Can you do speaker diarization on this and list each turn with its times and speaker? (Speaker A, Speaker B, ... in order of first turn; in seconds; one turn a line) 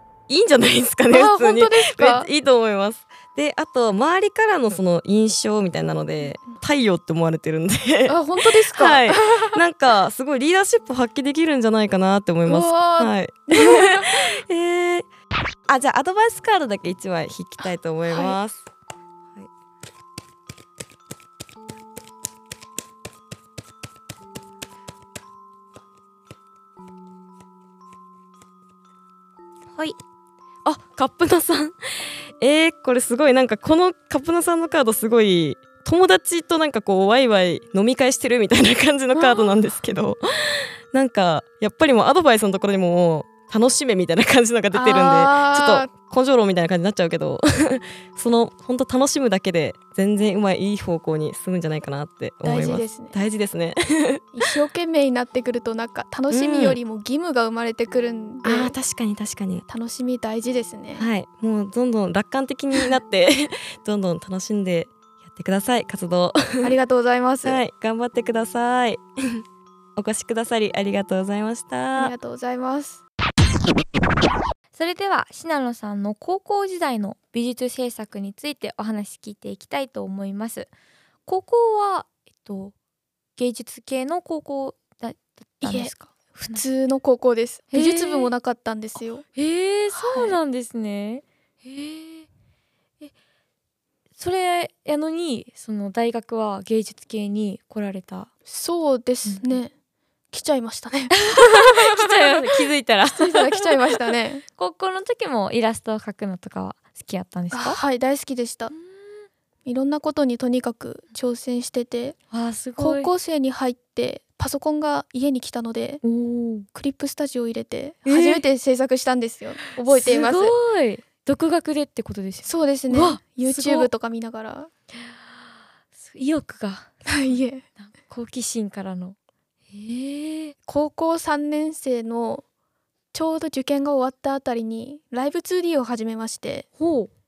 Speaker A: 0.3-15.1
Speaker B: 1.1-2.3
Speaker B: 6.2-6.6
Speaker B: 8.1-9.5
Speaker B: 12.4-14.1
Speaker A: 15.7-18.6
Speaker B: 17.6-18.4
Speaker A: 30.6-54.4
Speaker B: 39.2-39.5
Speaker B: 44.7-45.9
Speaker B: 52.4-53.1
Speaker B: 54.3-58.7
Speaker A: 56.3-56.8
Speaker A: 58.4-59.6
Speaker B: 59.7-61.1
Speaker A: 61.0-66.7
Speaker B: 66.6-67.6
Speaker A: 67.4-69.4
Speaker A: 70.0-72.1
Speaker B: 72.0-73.0
Speaker C: 74.8-80.7
Speaker C: 81.2-82.7
Speaker C: 83.3-86.6
Speaker B: 85.6-89.2
Speaker C: 87.7-88.3
Speaker C: 89.3-92.3
Speaker B: 89.9-90.4
Speaker C: 94.2-98.3
Speaker B: 98.5-99.7
Speaker C: 99.2-99.5
Speaker B: 100.3-102.4
Speaker C: 101.2-103.7
Speaker B: 103.1-104.4
Speaker C: 104.6-107.8
Speaker B: 107.5-108.7
Speaker C: 108.7-109.2
Speaker B: 109.6-112.2
Speaker C: 112.3-113.1
Speaker B: 112.8-116.0
Speaker C: 116.0-116.7
Speaker B: 116.7-120.5
Speaker C: 118.0-118.4
Speaker C: 119.9-123.9
Speaker B: 122.4-124.7
Speaker C: 126.0-127.0
Speaker B: 127.1-127.6
Speaker C: 127.8-129.2
Speaker C: 129.7-130.5
Speaker B: 130.7-132.4
Speaker B: 133.1-136.7
Speaker C: 136.8-137.1